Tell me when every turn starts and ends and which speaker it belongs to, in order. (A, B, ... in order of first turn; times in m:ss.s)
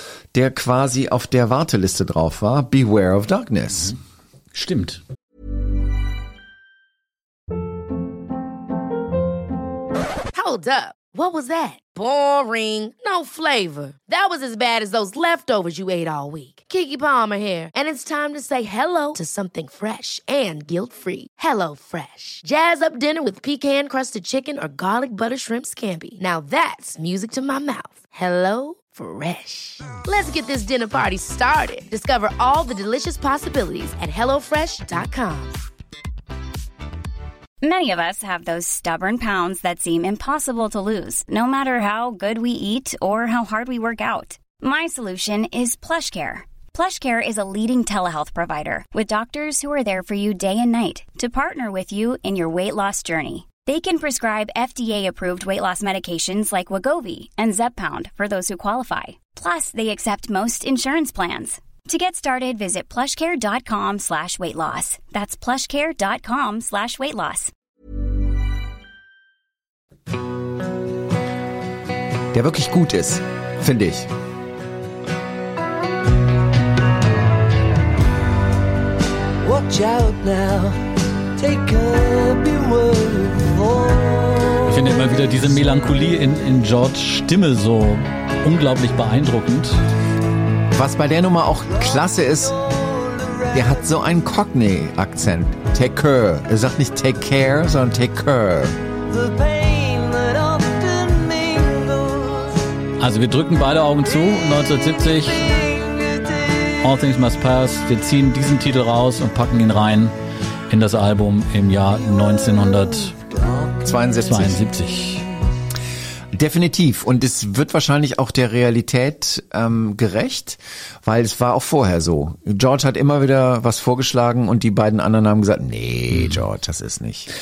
0:00.3-0:03.9 A
0:04.5-0:05.0 B
0:10.3-0:35.6 C
0:37.6-1:07.5 D
1:12.3-1:14.1 A
1:19.4-1:20.8 E
1:21.4-1:25.0 E
1:24.7-1:29.8 B
1:30.7-1:32.5 A
1:32.5-1:33.7 E
1:33.5-1:38.8 A
1:39.1-1:42.6 E
1:43.0-1:45.5 B
1:45.4-1:46.7 E
1:46.8-1:50.1 B
1:50.7-1:53.2 B
1:52.6-1:54.2 E
1:53.8-1:54.6 A
1:54.2-1:55.2 B
1:56.3-2:07.3 A
2:06.1-2:06.4 B